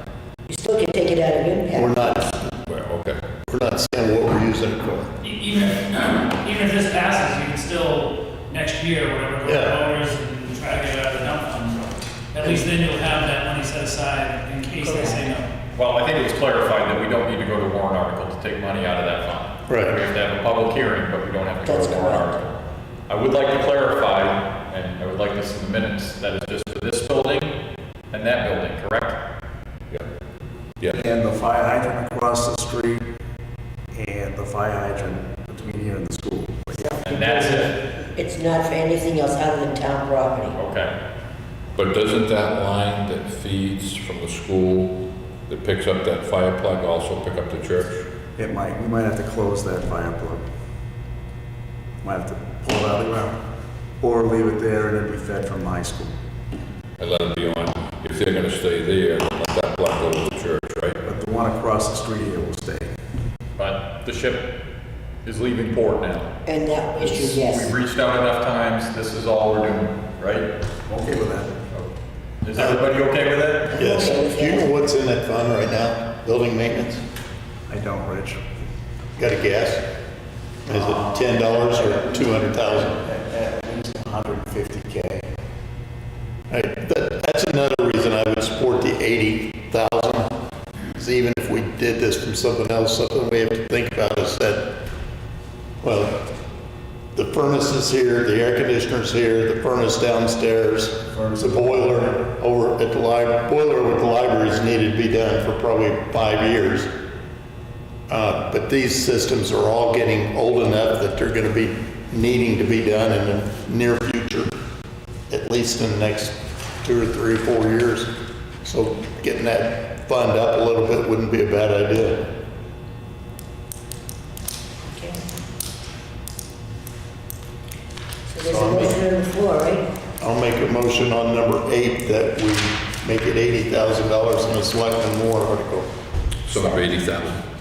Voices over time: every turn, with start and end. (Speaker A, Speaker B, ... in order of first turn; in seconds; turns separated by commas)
Speaker A: 0.5-2.0, Speaker B: 1.7-2.6, Speaker C: 2.7-3.2, Speaker B: 3.5-5.1, Speaker D: 5.2-15.5, Speaker B: 9.4-9.8, Speaker A: 14.8-15.3, Speaker E: 15.8-22.6, Speaker B: 19.7-20.0, Speaker A: 21.6-22.4, Speaker E: 23.1-27.6, Speaker E: 28.1-29.2, Speaker F: 30.9-33.0, Speaker F: 33.9-37.0, Speaker A: 36.8-40.5, Speaker E: 37.0-37.8, Speaker E: 40.5-40.9, Speaker C: 41.8-48.0, Speaker F: 48.4-50.4, Speaker F: 52.0-53.4, Speaker F: 54.0-56.1, Speaker C: 57.0-61.0, Speaker F: 61.0-62.9, Speaker E: 63.6-64.5, Speaker E: 65.2-66.3, Speaker A: 66.5-67.7, Speaker E: 67.0-70.5, Speaker F: 70.9-71.7, Speaker E: 72.4-73.7, Speaker A: 73.7-74.8, Speaker B: 73.8-77.0, Speaker F: 77.7-78.4, Speaker B: 79.2-79.8, Speaker B: 80.7-82.9, Speaker F: 80.7-85.3, Speaker B: 86.5-90.3, Speaker B: 90.9-94.7, Speaker B: 95.8-96.2, Speaker B: 97.1-106.9, Speaker F: 101.1-102.2, Speaker B: 108.1-114.5, Speaker B: 115.3-118.1, Speaker B: 118.6-122.3, Speaker A: 124.9-125.2, Speaker A: 128.3-129.8, Speaker B: 128.4-129.0, Speaker B: 130.2-135.9, Speaker C: 136.4-137.4